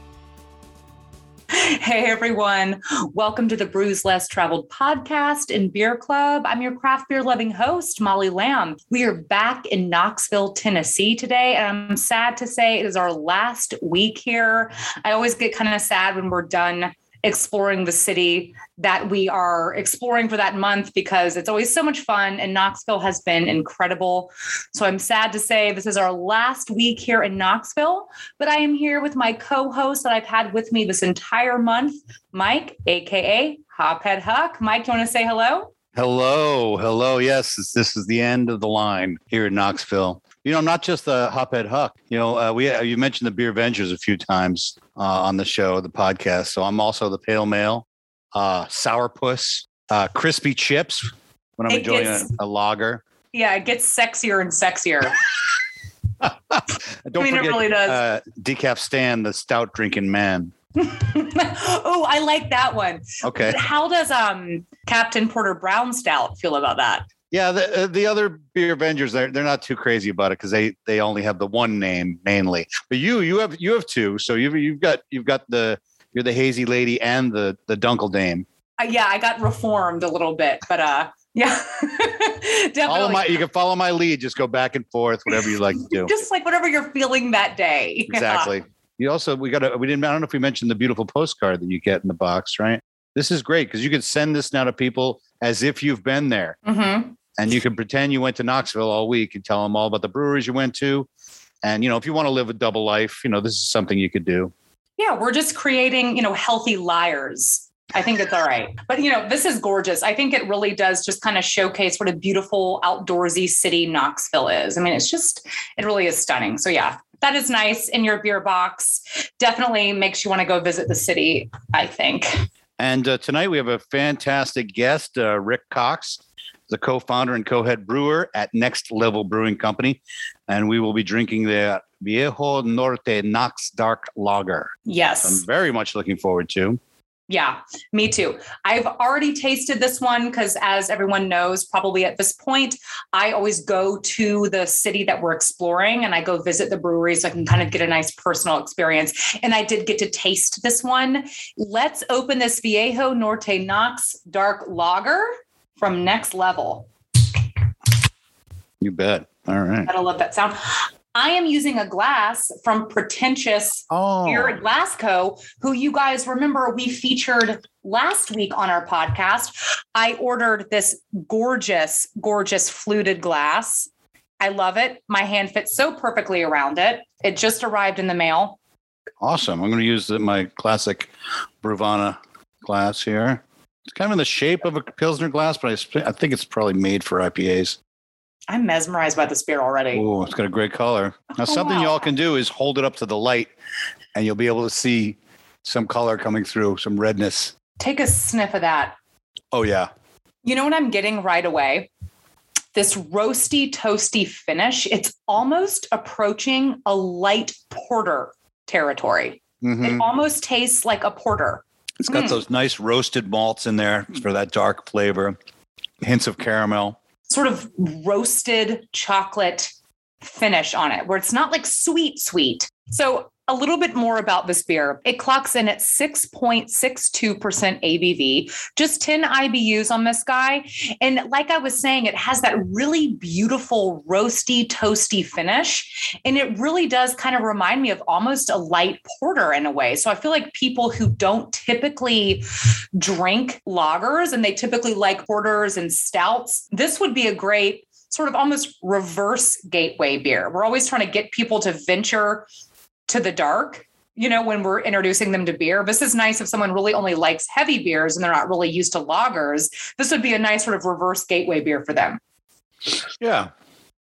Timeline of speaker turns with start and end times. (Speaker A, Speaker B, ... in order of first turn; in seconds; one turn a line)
Speaker A: 1.5-35.7
Speaker B: 36.0-53.0
Speaker A: 51.7-52.3
Speaker A: 53.3-55.2
Speaker B: 56.2-60.5
Speaker A: 57.2-58.0
Speaker A: 60.8-67.1
Speaker B: 63.2-63.6
Speaker B: 67.3-78.5
Speaker A: 78.8-83.3
Speaker B: 82.9-86.2
Speaker A: 85.9-88.5
Speaker B: 88.1-96.6
Speaker A: 96.7-97.2
Speaker B: 97.4-101.1
Speaker B: 101.6-104.5
Speaker A: 105.0-122.5
Speaker B: 122.8-136.8
Speaker A: 134.9-135.4
Speaker A: 137.3-156.9
Speaker B: 158.8-159.9
Speaker A: 159.9-173.9
Speaker B: 163.9-164.6
Speaker A: 174.4-178.6
Speaker B: 179.2-181.1
Speaker B: 181.6-187.8
Speaker A: 188.5-190.0
Speaker B: 189.9-193.5
Speaker A: 191.4-192.1
Speaker B: 194.1-197.5
Speaker A: 197.8-198.9
Speaker B: 199.5-199.9
Speaker A: 200.4-201.9
Speaker A: 202.8-212.4
Speaker B: 209.6-210.1
Speaker B: 212.1-215.4
Speaker B: 216.0-217.0
Speaker A: 217.3-252.5
Speaker A: 253.1-262.2
Speaker B: 263.2-263.5